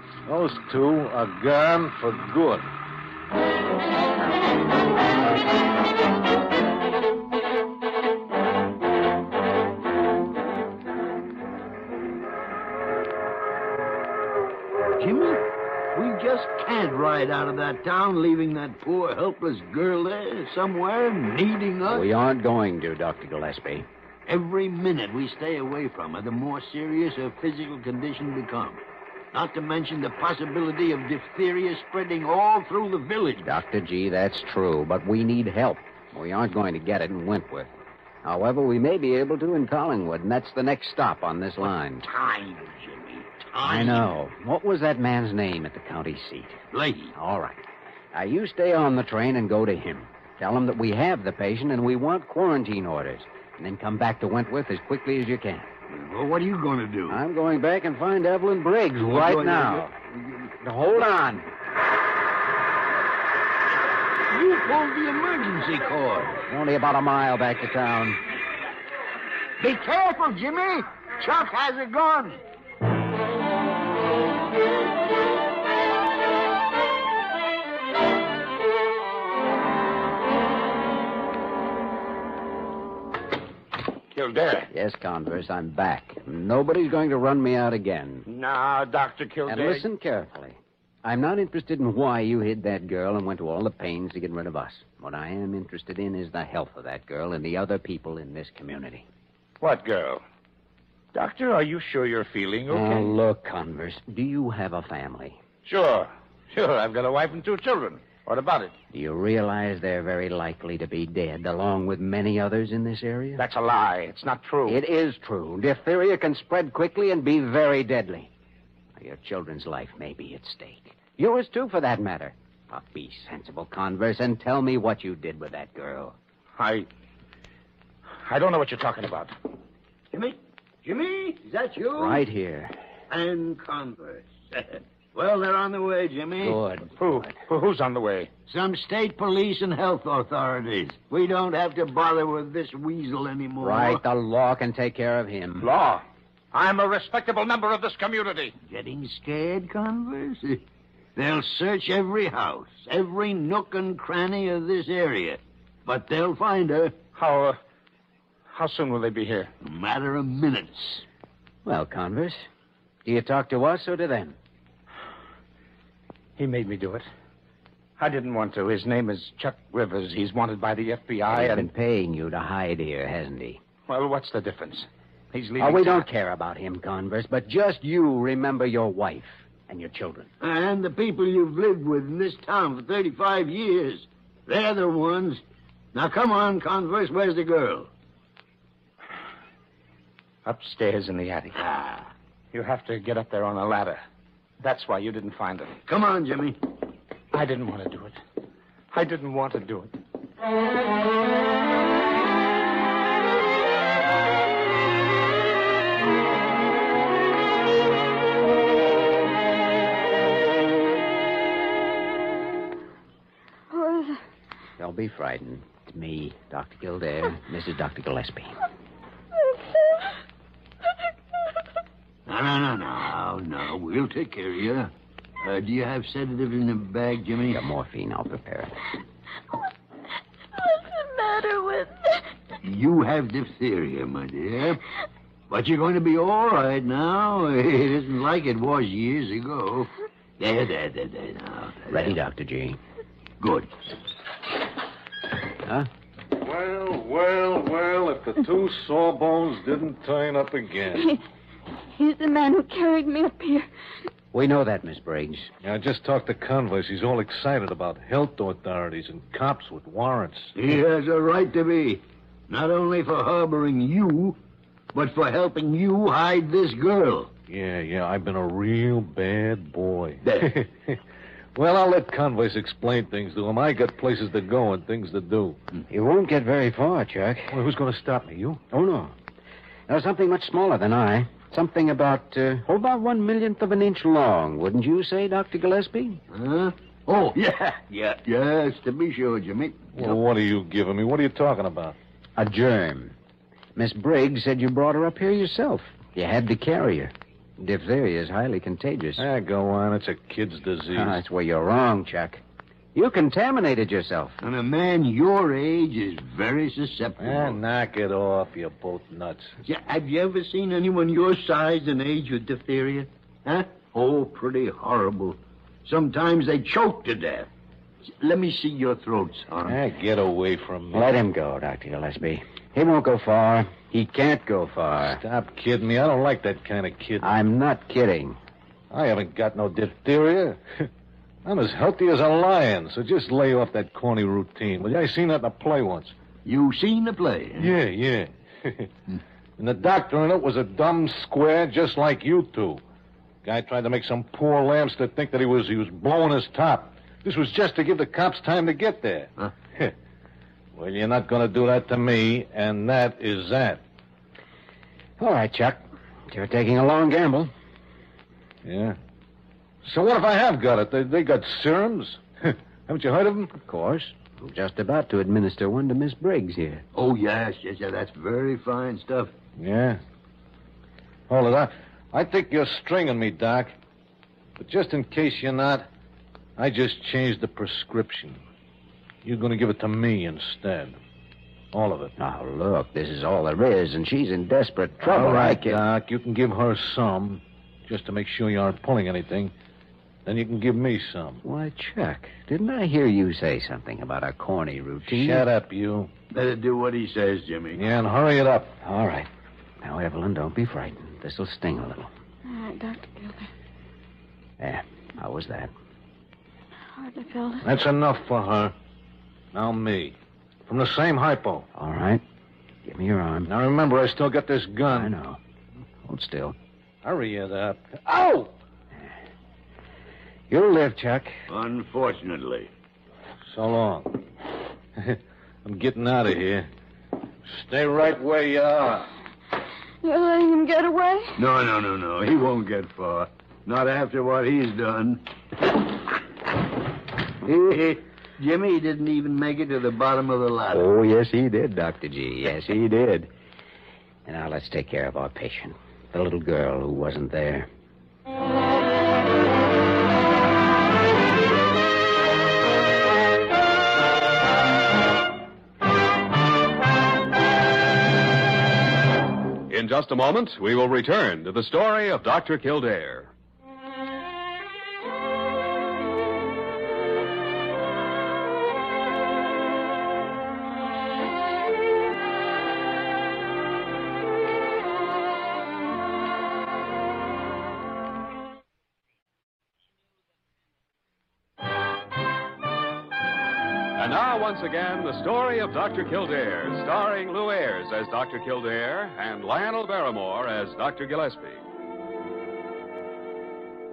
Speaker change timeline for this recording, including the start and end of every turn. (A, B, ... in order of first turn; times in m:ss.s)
0:00.2-0:02.7 A
0:15.0-0:22.1 B
0:21.9-0:23.9 C
0:24.2-0:28.8 B
0:29.3-0:33.5 B
0:33.4-0:37.7 C
0:38.2-0:42.0 C
0:42.0-0:44.1 B
0:43.6-0:46.6 C
0:46.7-0:47.1 B
0:47.1-0:55.7 C
0:55.9-0:57.2 B
0:57.1-1:00.0 C
0:59.0-1:00.5 B
1:00.6-1:01.5 C
1:04.3-1:06.4 B
1:06.5-1:08.2 C
1:09.6-1:12.4 B
1:24.1-1:24.7 D
1:24.7-1:28.2 C
1:28.3-1:29.8 D
1:29.5-1:39.0 C
1:39.6-1:40.2 D
1:41.1-1:43.1 D
1:42.7-1:45.4 C
1:45.6-1:48.7 D
1:48.9-1:53.4 C
1:53.4-1:54.8 D
1:54.6-1:58.3 C
1:59.0-2:06.2 C
2:06.6-2:06.9 D
2:08.2-2:09.3 D
2:10.1-2:12.2 B
2:11.9-2:12.7 C
2:13.1-2:16.6 B
2:16.4-2:17.0 C
2:17.0-2:18.3 D
2:18.5-2:24.0 B
2:23.6-2:25.7 C
2:25.6-2:28.5 D
2:28.6-2:30.6 B
2:31.2-2:37.0 B
2:37.2-2:37.6 D
2:38.5-2:39.5 D
2:39.6-2:41.0 B
2:41.6-2:42.5 C
2:43.0-2:44.4 C
2:46.4-2:47.0 D
2:48.0-2:51.7 D
2:51.3-2:53.6 C
2:53.9-2:56.0 D
2:55.6-3:00.3 C
3:00.4-3:05.4 B
3:05.9-3:07.9 B
3:10.4-3:11.6 D
3:11.6-3:12.1 B
3:12.5-3:14.0 D
3:14.6-3:15.8 D
3:15.9-3:16.6 B
3:17.3-3:18.2 D
3:18.9-3:20.0 D
3:33.7-3:34.2 E
3:34.8-3:38.6 C
3:42.2-3:44.9 B
3:45.4-3:47.6 B
3:47.4-3:48.8 C
3:50.6-3:52.2 E
3:52.6-3:54.8 B
3:55.5-4:02.1 B
4:01.9-4:02.8 C
4:03.4-4:03.7 B
4:05.6-4:05.9 C
4:06.4-4:11.1 A
4:10.9-4:11.2 E
4:12.0-4:13.7 E
4:14.3-4:15.5 C
4:15.6-4:20.5 A
4:20.5-4:24.4 B
4:24.9-4:27.3 B
4:27.5-4:31.0 A
4:30.2-4:30.5 B
4:31.5-4:35.6 A
4:35.9-4:37.6 C
4:37.5-4:38.7 A
4:38.7-4:39.1 C
4:39.9-4:46.2 C
4:46.3-4:50.2 B
4:49.9-4:52.0 A
4:52.4-4:53.2 C
4:53.8-4:59.2 C
4:59.2-5:01.2 A
5:00.9-5:02.4 C
5:02.9-5:04.4 C
5:04.4-5:07.6 B
5:07.2-5:09.6 A
5:09.6-5:17.5 B
5:18.1-5:19.8 B
5:19.6-5:21.2 A
5:20.9-5:25.2 C
5:25.0-5:27.4 A
5:27.2-5:28.4 C
5:28.9-5:30.9 A
5:31.4-5:36.1 A
5:36.4-5:37.7 B
5:37.6-5:38.9 A
5:39.6-5:42.8 A
5:43.4-5:49.9 A
5:50.7-5:53.8 A
5:55.2-5:57.5 C
5:58.6-5:59.0 A
5:59.8-6:03.5 A
6:03.5-6:06.8 C
6:06.9-6:09.3 B
6:09.6-6:10.0 A
6:11.3-6:13.7 A
6:14.6-6:15.9 A
6:16.6-6:18.4 A
6:19.2-6:21.0 A
6:21.7-6:22.1 A
6:22.2-6:25.8 C
6:25.0-6:29.5 A
6:30.2-6:31.4 A
6:31.4-6:35.5 C
6:35.1-6:36.1 A
6:36.3-6:37.8 B
6:37.8-6:38.8 A
6:38.8-6:39.3 C
6:39.8-6:42.1 C
6:42.4-6:43.5 E
6:44.6-6:45.7 C
6:46.9-6:47.7 E
6:47.6-6:48.7 A
6:49.5-6:50.2 A
6:50.7-6:51.7 A
6:51.7-6:52.2 C
6:52.8-6:53.5 C
6:53.5-6:55.1 A
6:54.9-6:55.4 C
6:56.0-6:56.5 C
6:57.0-6:58.5 A
7:00.5-7:01.4 C
7:01.5-7:02.7 B
7:03.5-7:04.2 A
7:05.0-7:06.7 A
7:07.5-7:09.1 A
7:10.0-7:11.4 E
7:11.4-7:15.2 B
7:17.4-7:20.8 B
7:20.7-7:23.3 C
7:24.2-7:27.7 C
7:39.7-7:43.3 F
8:04.0-8:11.6 F